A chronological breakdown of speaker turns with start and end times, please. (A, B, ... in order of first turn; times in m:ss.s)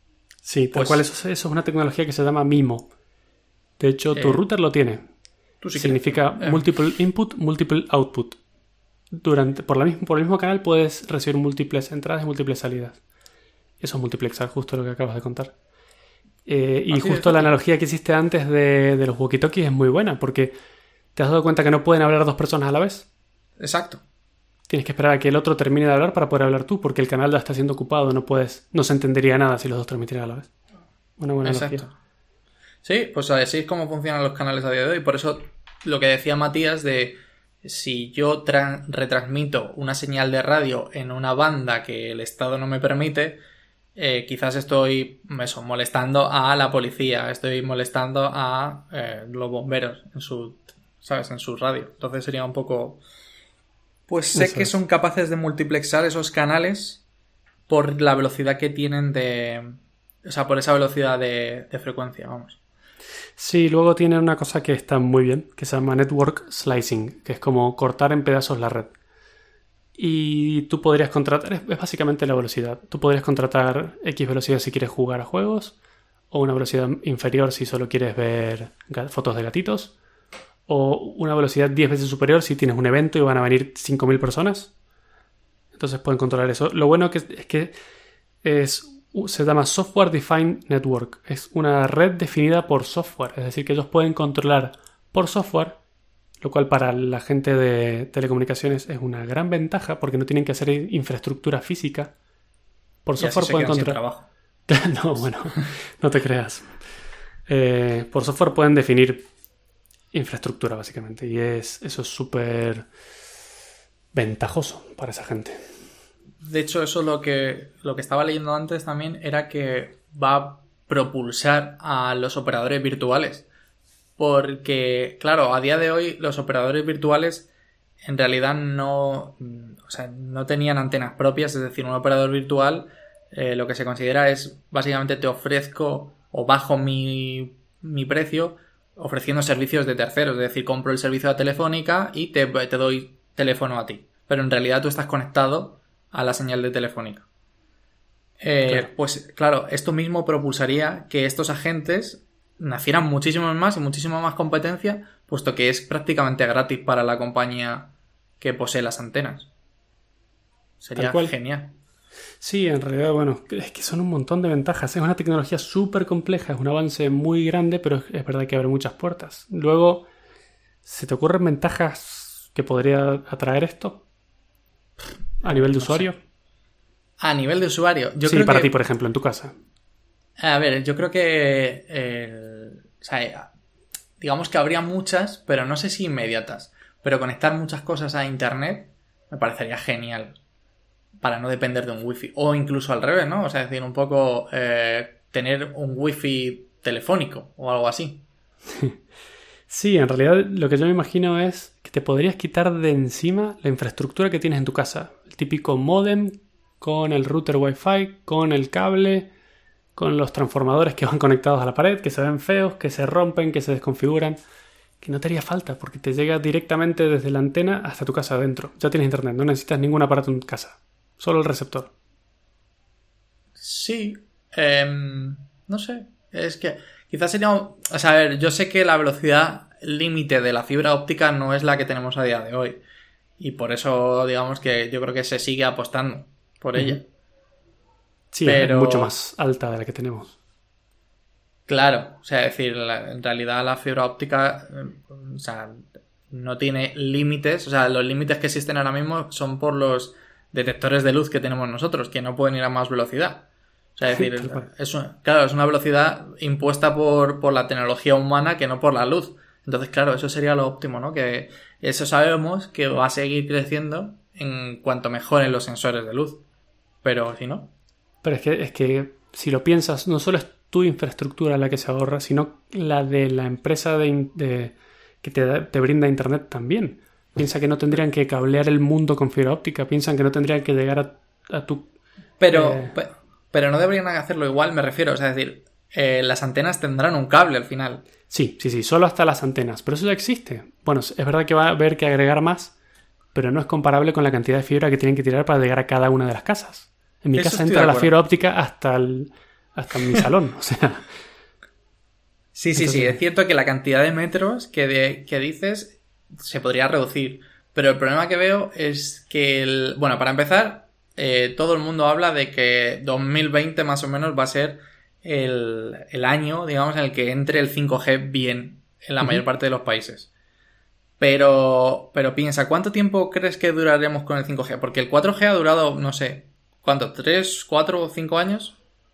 0:00.4-0:02.9 A
0:00.7-0:01.0 B
0:03.8-0:05.1 A
0:04.1-0:04.4 B
0:05.6-0:06.6 B
0:05.8-0:08.4 A
0:09.1-0:13.0 A
0:13.8-0:15.5 A
0:16.5-0:20.5 A
0:16.9-0:17.5 B
0:21.2-0:23.1 A
0:23.6-0:24.0 B
0:24.7-0:30.5 A
0:31.2-0:31.9 A
0:31.4-0:31.9 B
0:32.8-0:43.4 B
0:44.0-0:53.0 B
0:54.1-0:57.0 B
0:54.4-0:54.7 A
0:57.7-0:59.7 B
1:00.2-1:02.6 B
1:03.4-1:08.9 A
1:10.0-1:15.8 A
1:16.3-1:19.9 A
1:20.7-1:24.7 A
1:25.8-1:27.7 A
1:28.4-1:35.8 A
1:36.4-1:42.1 A
1:43.0-1:44.0 A
1:43.2-1:44.3 B
1:44.7-1:46.8 A
1:47.5-1:49.3 A
1:50.1-1:52.9 A
1:54.1-1:55.7 A
1:56.4-2:03.5 B
2:04.2-2:07.5 B
2:08.0-2:27.3 B
2:28.4-2:39.5 B
2:40.8-2:41.7 B
2:41.0-2:41.3 A
2:42.4-2:50.1 A
2:50.8-2:54.0 A
2:55.4-2:56.1 B
2:55.4-2:56.2 A
2:57.2-2:58.7 B
2:58.2-2:59.5 A
3:00.4-3:03.5 B
3:04.2-3:10.4 B
3:11.2-3:18.2 B
3:19.7-3:29.3 A
3:30.0-3:34.4 A
3:35.0-3:41.9 A
3:43.6-3:52.8 B
3:53.4-3:57.1 B
3:58.3-4:00.4 A
3:58.5-3:59.1 B
4:01.7-4:26.4 B
4:14.1-4:14.6 A
4:27.0-4:27.7 B
4:28.2-4:41.9 A
4:42.4-4:48.0 B
4:42.5-4:43.0 A
4:48.3-4:52.7 A
4:53.3-5:01.1 A
4:57.4-4:58.1 B
5:02.6-5:20.3 B
5:02.8-5:03.2 A
5:21.2-5:28.8 B